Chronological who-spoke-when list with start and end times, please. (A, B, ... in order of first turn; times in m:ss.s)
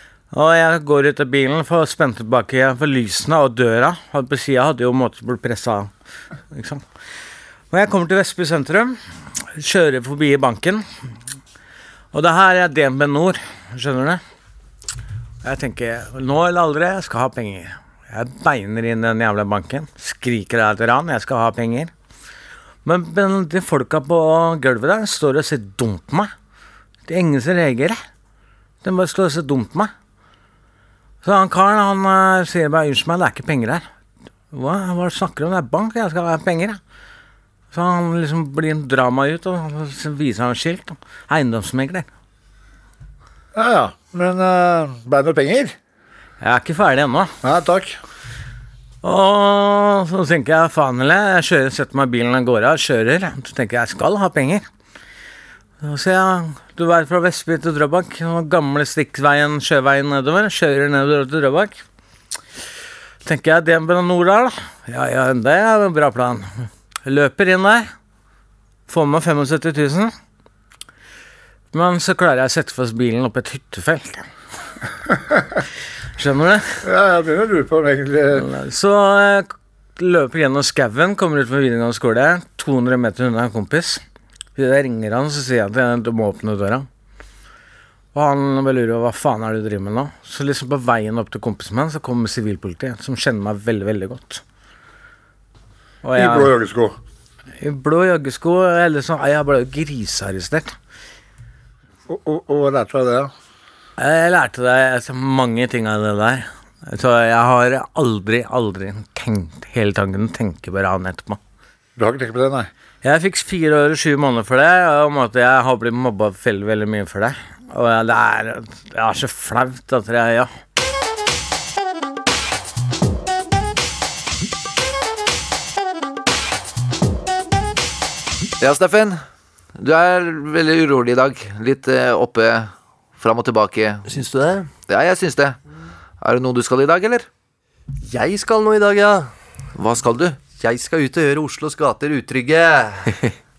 0:00.3-0:05.9 A
0:06.5-0:06.8 A
0:07.7-0:09.0 A
0:09.6-0:10.8 A
0:12.1-0:14.2 A
0:15.4-0:21.9 A
0:22.8-0:26.3 A
0:27.1-0:28.0 A
0:28.8-0:29.9 A
0:31.2-0:33.8 A
0:34.5-0:36.8 A
0:37.7-0:42.1 A
0:43.6-0:45.8 B
0:46.4-0:47.3 A
0:47.4-0:48.0 B
0:49.0-0:54.6 A
0:55.8-1:01.8 A
1:03.2-1:06.5 A
1:07.0-1:07.9 A
1:08.9-1:10.1 A
1:11.7-1:14.2 A
1:16.2-1:16.8 A
1:16.8-1:18.5 B
1:18.4-1:24.0 A
1:24.6-1:26.9 A
1:28.1-1:34.4 A
1:36.0-1:36.5 A
1:36.2-1:36.9 B
1:37.6-1:40.8 A
1:42.1-1:43.3 B
1:44.0-1:51.4 A
1:52.0-1:52.7 B
1:53.0-2:00.5 A
2:08.6-2:09.2 C
2:09.8-2:14.1 C
2:14.1-2:14.7 D
2:14.9-2:15.6 C
2:16.2-2:17.3 C
2:18.0-2:19.3 D
2:19.8-2:20.4 C
2:20.5-2:23.2 D